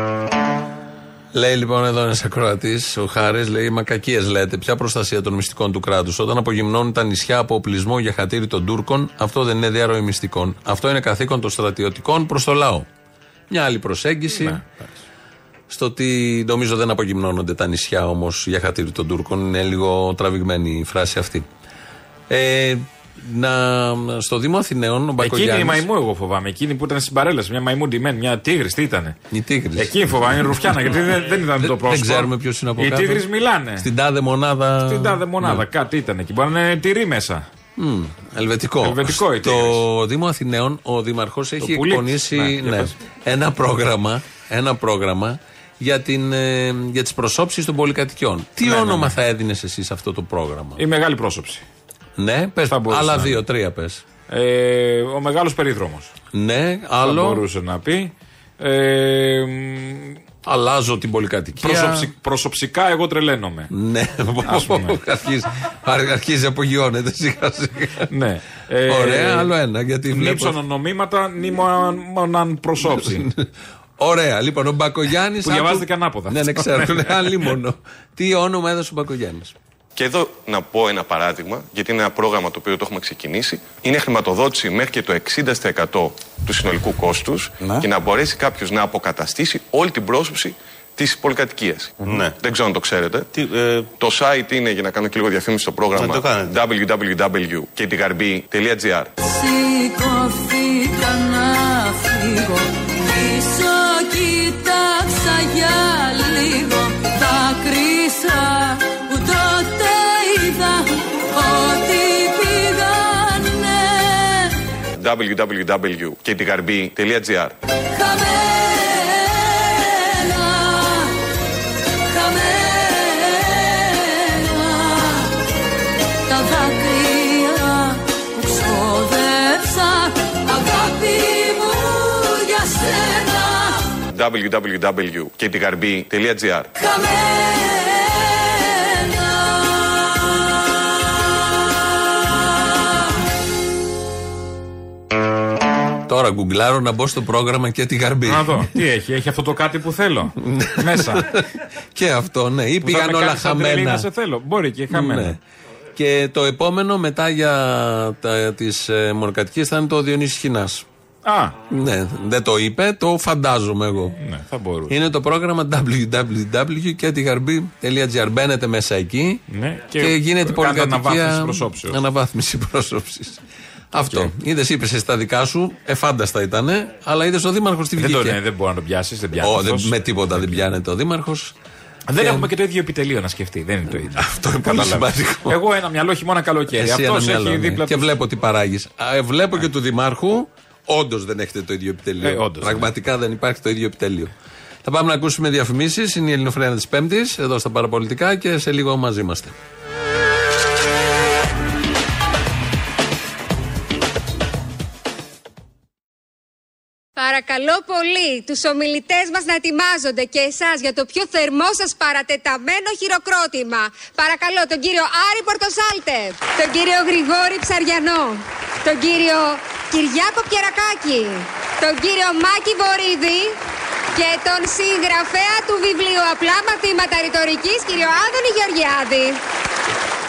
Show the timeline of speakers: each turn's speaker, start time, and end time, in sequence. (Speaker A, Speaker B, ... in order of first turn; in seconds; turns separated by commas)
Speaker A: 1.3-12.9, Speaker A: 13.5-14.6, Speaker B: 14.3-14.8, Speaker A: 15.7-21.5, Speaker A: 22.3-25.9, Speaker B: 25.2-29.2, Speaker A: 29.3-33.3, Speaker B: 29.8-33.9, Speaker A: 33.8-35.6, Speaker B: 34.8-37.5, Speaker A: 37.8-50.8, Speaker B: 38.8-39.8, Speaker B: 41.6-42.9, Speaker B: 48.6-49.1, Speaker B: 50.8-51.6, Speaker A: 52.2-54.0, Speaker B: 52.7-53.4, Speaker B: 54.3-56.1, Speaker A: 56.3-57.4, Speaker B: 57.0-60.2, Speaker A: 60.4-62.1, Speaker B: 61.6-63.7, Speaker A: 63.7-68.1, Speaker B: 64.5-65.0, Speaker B: 68.1-69.5, Speaker A: 68.9-70.6, Speaker B: 70.1-73.3, Speaker A: 72.8-79.5, Speaker B: 75.4-77.5, Speaker C: 80.0-93.3, Speaker C: 94.0-99.1, Speaker D: 99.2-114.5, Speaker C: 115.0-117.5, Speaker D: 117.9-121.2, Speaker D: 122.1-125.3, Speaker D: 126.3-133.9, Speaker C: 134.1-136.7, Speaker D: 136.8-140.2, Speaker A: 146.1-148.7, Speaker B: 148.2-151.3, Speaker A: 150.4-154.1, Speaker B: 152.8-155.3, Speaker A: 154.9-155.4, Speaker A: 156.0-160.8, Speaker B: 161.2-161.6, Speaker A: 161.7-164.2, Speaker B: 164.2-164.9, Speaker A: 164.9-169.4, Speaker B: 169.5-172.0, Speaker A: 169.9-178.4, Speaker B: 178.0-180.6, Speaker A: 179.4-181.5, Speaker B: 182.1-188.1, Speaker A: 182.2-182.5, Speaker A: 184.1-185.6, Speaker A: 186.7-194.3, Speaker B: 192.2-192.9, Speaker A: 194.8-199.6, Speaker E: 207.2-223.6, Speaker E: 224.1-229.4